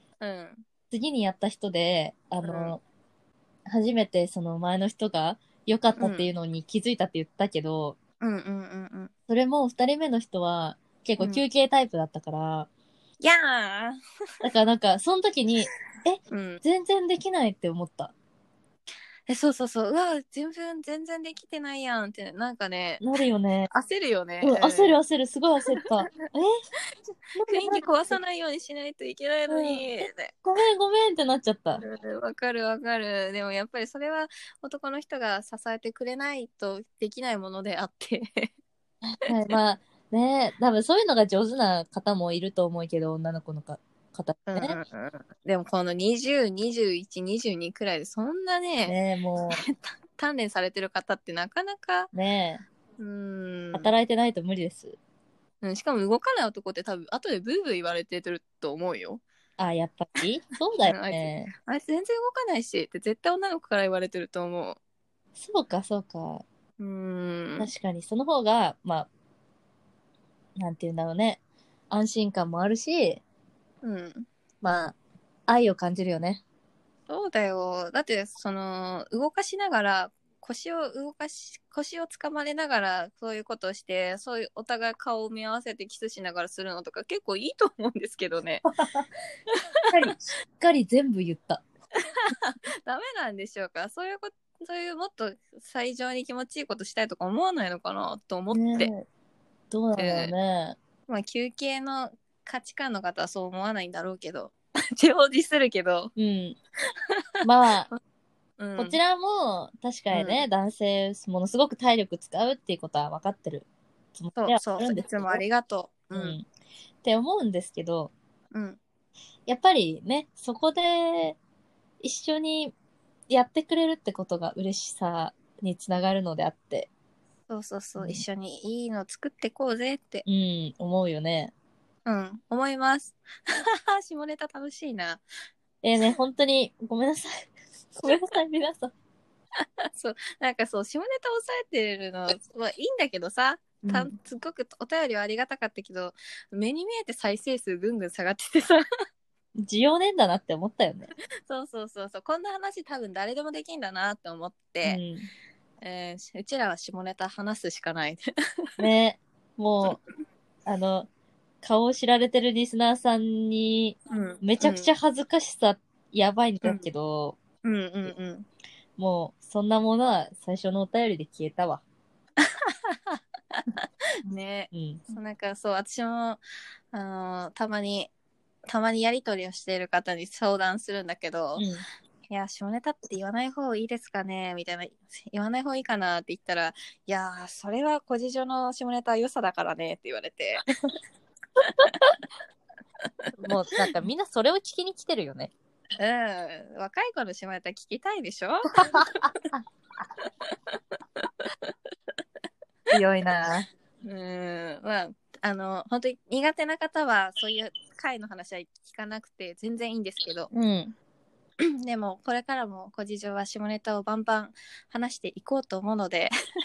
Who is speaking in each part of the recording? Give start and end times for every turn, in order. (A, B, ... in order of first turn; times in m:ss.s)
0:00.2-0:00.6 A
0:00.9-0:02.8 B
0:02.4-0:02.8 A
0:03.7-0:08.0 B
0:06.0-0:06.3 A
0:08.2-0:09.1 A
0:09.3-0:12.7 B
0:11.2-0:11.4 A
0:13.2-0:14.0 A
0:14.4-0:18.1 B
0:16.3-0:16.6 A
0:19.3-0:23.0 A
0:23.0-0:23.7 B
0:23.7-0:25.0 A
0:24.4-0:26.6 B
0:27.3-0:28.2 B
0:27.4-0:30.3 A
0:29.5-0:31.8 B
0:31.8-0:38.5 A
0:39.0-0:44.8 B
0:44.5-0:49.0 A
0:48.9-0:49.6 B
0:49.5-0:52.1 A
0:52.1-0:52.6 B
0:53.0-0:53.9 A
0:53.7-0:55.0 B
0:55.6-0:59.2 A
0:59.6-1:01.5 B
1:00.8-1:04.8 A
1:05.4-1:06.4 B
1:06.8-1:07.7 A
1:07.6-1:09.1 B
1:10.6-1:13.2 B
1:13.8-1:14.3 A
1:14.6-1:14.9 B
1:15.5-1:16.4 B
1:17.1-1:28.6 A
1:28.6-1:29.1 B
1:29.9-1:31.6 B
1:32.1-1:38.9 A
1:38.5-1:39.0 B
1:39.7-1:40.8 B
1:40.0-1:40.3 A
1:41.1-1:46.1 A
1:46.2-1:46.6 B
1:47.4-1:47.9 B
1:47.4-1:47.9 A
1:48.6-1:49.0 A
1:48.8-1:55.4 B
1:50.1-1:50.4 A
1:54.4-1:56.4 A
1:56.1-1:56.4 B
1:57.0-1:58.1 B
1:58.5-1:58.8 A
1:59.5-2:01.4 B
2:02.0-2:02.7 B
2:03.3-2:06.9 B
2:07.5-2:10.2 A
2:08.0-2:08.2 B
2:10.2-2:11.5 B
2:12.0-2:15.2 A
2:15.8-2:18.9 B
2:19.9-2:28.8 A
2:23.8-2:24.1 B
2:29.6-2:31.1 B
2:31.5-2:35.0 A
2:34.8-2:35.3 B
2:35.8-2:38.2 A
2:38.8-2:40.0 B
2:40.6-2:41.1 B
2:41.6-2:47.4 B
2:44.1-2:44.9 A
2:47.6-2:48.4 A
2:49.0-2:51.8 B
2:52.7-2:56.4 A
2:54.7-2:55.0 B
2:56.9-2:58.1 A
2:58.7-3:01.6 A
3:01.6-3:01.8 B
3:02.3-3:10.6 A
3:11.6-3:12.2 A
3:13.4-3:15.5 B
3:16.0-3:19.4 A
3:18.7-3:19.6 B
3:20.2-3:21.7 A
3:22.9-3:23.7 B
3:24.0-3:30.5 A
3:30.5-3:30.9 B
3:31.8-3:36.3 A